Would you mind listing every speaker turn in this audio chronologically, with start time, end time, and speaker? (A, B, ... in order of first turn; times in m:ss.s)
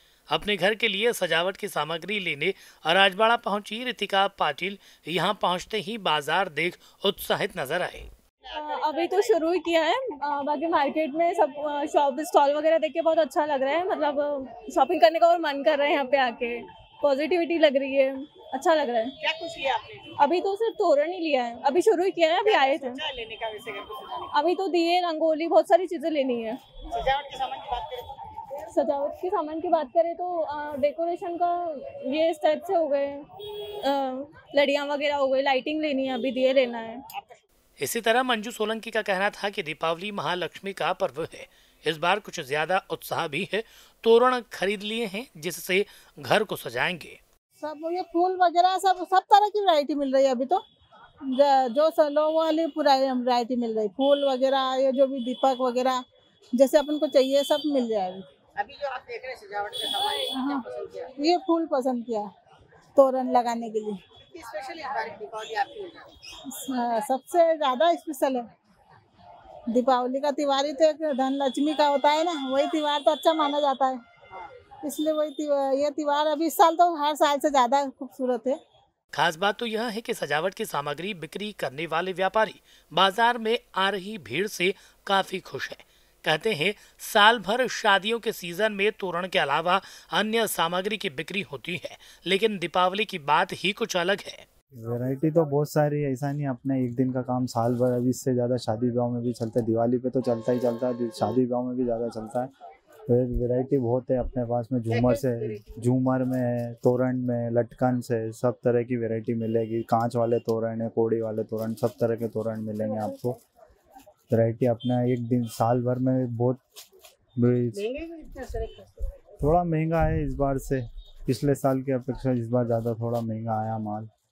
0:00.3-0:08.1 A
0:08.5-0:19.2 B
0:19.2-0:20.1 C
0:20.2-0:23.0 B
0:22.6-0:24.2 C
0:24.3-0:26.6 B
0:26.9-0:28.1 C
0:28.7-0:33.3 B
0:33.8-0:37.0 B
0:37.8-0:47.2 A
0:47.6-0:50.6 D
0:51.3-0:56.0 D
0:56.6-0:58.3 D
0:58.6-1:01.1 C
1:00.3-1:02.3 D
1:03.0-1:04.0 D
1:04.3-1:06.1 C
1:06.5-1:08.5 D
1:09.7-1:14.0 D
1:14.8-1:18.6 D
1:19.1-1:34.4 A
1:34.8-1:42.5 E
1:43.1-1:53.4 E
1:54.3-1:56.6 E
1:57.4-1:57.9 E
1:57.9-1:58.9 C
1:59.4-2:04.1 E